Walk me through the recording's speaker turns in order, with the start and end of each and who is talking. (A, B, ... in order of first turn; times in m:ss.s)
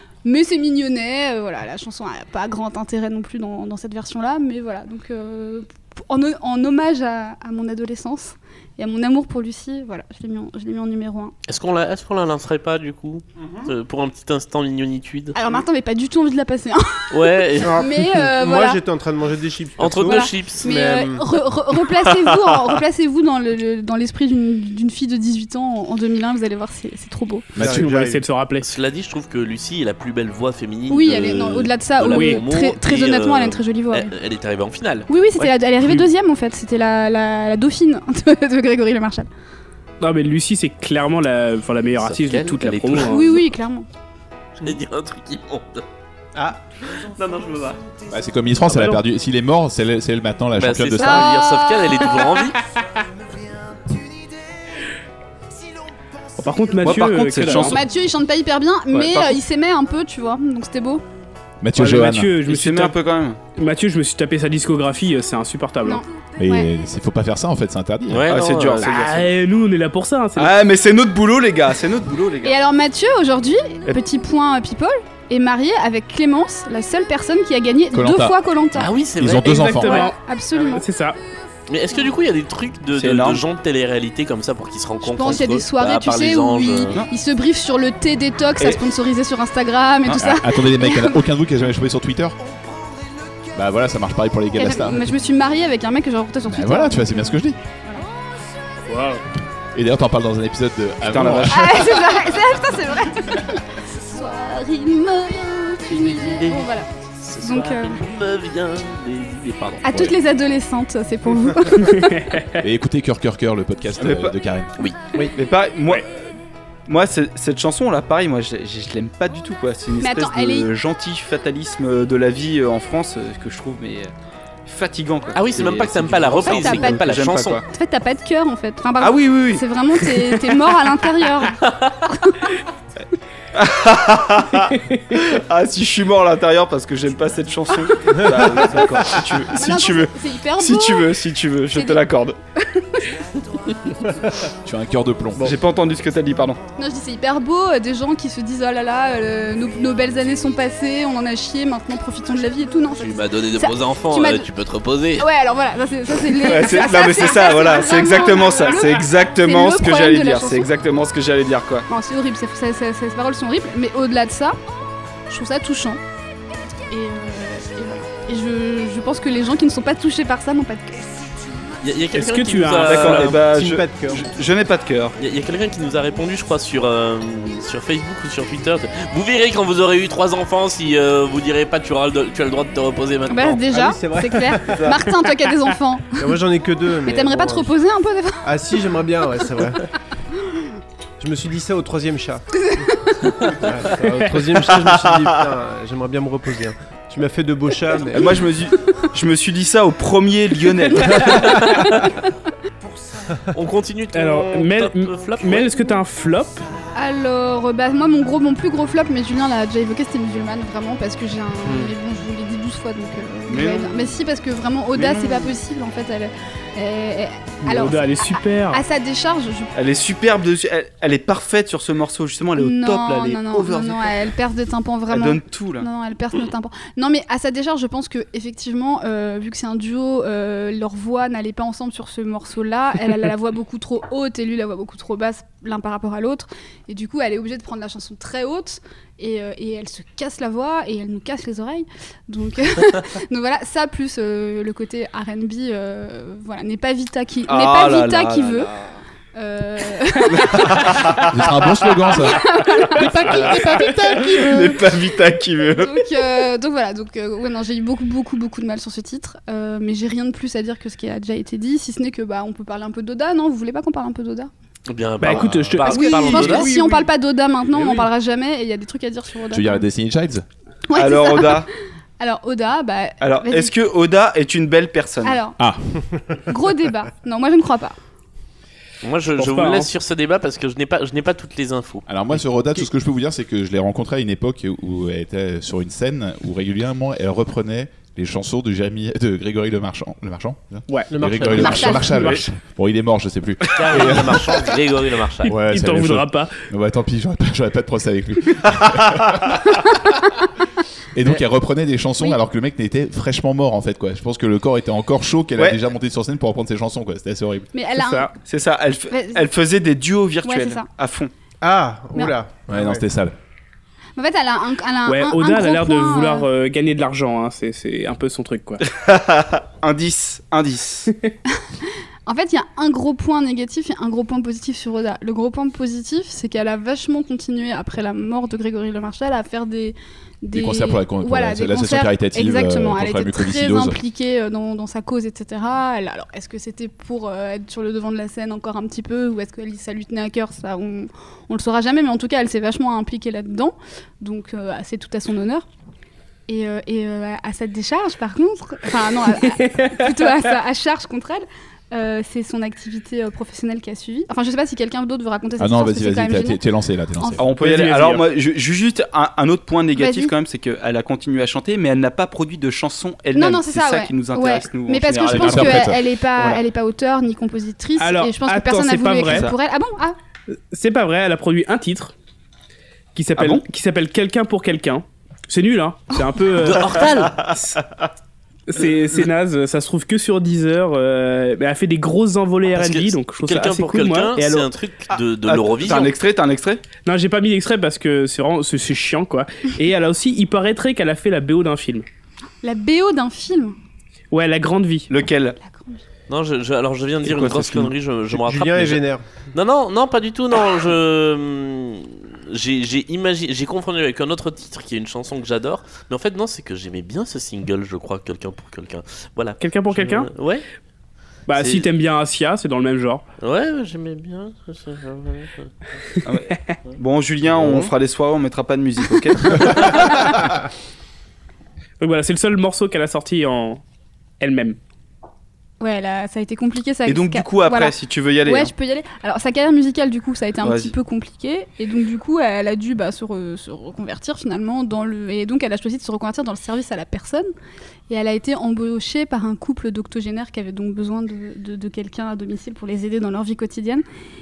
0:00.2-0:11.3 A
0:11.5-0:15.4 B
0:13.4-0:13.7 C
0:15.3-0:18.8 A
0:17.1-0:17.8 B
0:17.6-0:21.3 C
0:19.8-0:20.6 B
0:20.0-0:27.5 A
0:22.1-0:22.5 D
0:27.6-0:27.9 E
0:27.6-0:28.2 C
0:27.6-0:28.7 F
0:28.6-0:35.4 B
0:30.9-0:34.1 A
0:32.1-0:32.4 F
0:35.1-0:39.3 A
0:35.8-0:36.1 F
0:40.0-0:43.4 F
0:42.0-0:43.2 B
0:43.0-0:43.9 A
0:44.6-0:45.8 B
0:46.3-0:46.6 C
0:46.8-0:47.8 B
0:48.1-0:51.3 E
0:48.6-0:49.0 F
0:50.6-0:52.6 B
0:51.0-0:52.3 A
0:56.4-0:57.8 F
0:56.8-0:57.8 D
0:57.6-1:01.0 A
0:58.9-0:59.4 D
1:01.6-1:02.3 E
1:01.8-1:02.9 F
1:02.4-1:03.4 D
1:03.6-1:06.0 F
1:05.8-1:06.7 A
1:06.4-1:08.3 E
1:08.1-1:09.3 B
1:08.3-1:09.3 D
1:08.8-1:10.6 F
1:10.4-1:12.5 D
1:12.4-1:18.9 A
1:17.9-1:18.4 E
1:18.8-1:19.7 B
1:19.2-1:20.1 E
1:19.4-1:20.2 F
1:19.7-1:20.8 A
1:20.7-1:21.2 F
1:21.7-1:27.0 B
1:22.9-1:23.4 D
1:25.0-1:31.2 A
1:30.1-1:32.4 E
1:33.5-1:35.1 E
1:34.6-1:38.0 A
1:36.4-1:37.6 E
1:38.9-1:39.2 F
1:39.7-1:42.0 E
1:41.1-1:41.6 D
1:41.5-1:46.9 A
1:45.9-1:46.7 B
1:47.2-1:49.8 B
1:47.4-1:48.0 A
1:49.8-1:52.1 A
1:49.8-1:50.1 E
1:51.8-1:52.6 F
1:52.6-1:54.7 E
1:54.0-1:54.3 D
1:55.3-1:56.2 D
1:56.9-2:04.1 D
2:00.0-2:00.7 A
2:04.6-2:07.6 D
2:05.3-2:07.6 B
2:06.4-2:07.1 A
2:07.7-2:12.4 A
2:09.0-2:09.6 D
2:11.6-2:11.9 B
2:13.5-2:22.4 D
2:14.7-2:15.0 F
2:19.5-2:21.1 A
2:21.7-2:22.0 A
2:22.6-2:23.1 A
2:24.0-2:24.3 C
2:24.6-2:25.6 E
2:25.4-2:26.6 D
2:26.8-2:34.5 A
2:33.0-2:35.3 B
2:35.2-2:40.7 A
2:36.3-2:41.9 D
2:41.9-2:44.6 A
2:45.3-2:46.0 A
2:46.9-2:51.1 A
2:51.8-2:53.4 B
2:52.1-2:53.4 F
2:52.8-2:55.2 D
2:53.4-2:54.3 C
2:55.2-3:03.6 B
3:03.3-3:06.4 A
3:03.7-3:05.1 C
3:06.2-3:07.7 C
3:07.0-3:08.4 A
3:08.4-3:09.9 C
3:11.2-3:18.4 C
3:12.6-3:13.5 A
3:18.1-3:21.8 D
3:23.5-3:25.9 B
3:24.1-3:26.6 F
3:26.9-3:39.7 A
3:31.6-3:31.9 C
3:33.5-3:34.2 D
3:34.9-3:35.6 D
3:37.6-3:38.8 F
3:39.8-3:44.3 D
3:42.6-4:08.7 A
3:45.1-3:45.9 D
4:07.5-4:08.9 D
4:09.3-4:10.9 A
4:10.3-4:11.5 D
4:11.2-4:14.8 E
4:11.9-4:14.6 A
4:13.2-4:16.2 D
4:15.8-4:24.5 A
4:24.9-4:26.7 B
4:25.2-4:26.5 F
4:25.8-4:29.8 A
4:26.4-4:27.0 C
4:27.8-4:28.0 C
4:29.5-4:30.4 E
4:30.9-4:31.7 A
4:30.9-4:31.7 D
4:32.2-4:33.7 A
4:33.2-4:35.4 D
4:35.2-4:35.6 A
4:35.6-4:36.0 E
4:36.4-4:38.0 A
4:39.0-4:42.1 B
4:39.4-4:39.9 F
4:42.1-4:54.6 E
4:50.9-4:52.4 F
4:51.1-4:52.3 C
4:51.5-4:52.2 A
4:53.7-4:55.5 B
4:53.8-4:54.2 D
4:55.4-4:56.6 F
4:55.4-5:00.2 E
5:01.1-5:07.7 E
5:07.7-5:08.3 A
5:07.9-5:08.3 F
5:08.4-5:11.3 D
5:09.1-5:09.4 A
5:10.4-5:10.9 A
5:11.6-5:13.0 C
5:12.7-5:13.4 E
5:14.2-5:16.5 A
5:15.0-5:18.8 F
5:18.9-5:21.1 D
5:21.6-5:45.6 A
5:30.5-5:34.0 E
5:46.5-5:56.6 A
5:49.4-5:50.1 F
5:55.6-5:57.5 E
5:57.2-5:57.4 A
5:57.4-6:05.8 D
5:57.6-5:58.2 F
6:00.0-6:00.3 A
6:03.3-6:10.2 A
6:05.3-6:06.0 E
6:08.0-6:09.5 F
6:09.2-6:09.5 D
6:10.5-6:12.1 F
6:13.1-6:17.8 F
6:13.4-6:13.6 D
6:16.6-6:17.4 B
6:17.0-6:17.8 D
6:18.7-6:24.7 F
6:22.7-6:26.1 B
6:25.1-6:26.8 D
6:27.0-6:32.0 F
6:32.6-6:33.7 A
6:34.3-6:35.1 F
6:35.1-6:35.6 D
6:35.6-6:36.0 A
6:36.3-6:39.0 B
6:37.2-6:37.9 D
6:38.3-6:39.2 C
6:39.5-6:50.6 B
6:49.6-6:50.3 F
6:51.5-6:53.2 F
6:51.5-6:51.9 B
6:53.4-6:55.7 B
6:56.2-7:00.3 D
6:57.6-6:57.9 C
7:02.0-7:03.8 F
7:04.4-7:04.8 F
7:05.8-7:17.5 A
7:07.0-7:08.7 D
7:10.6-7:10.9 D
7:18.1-7:24.0 A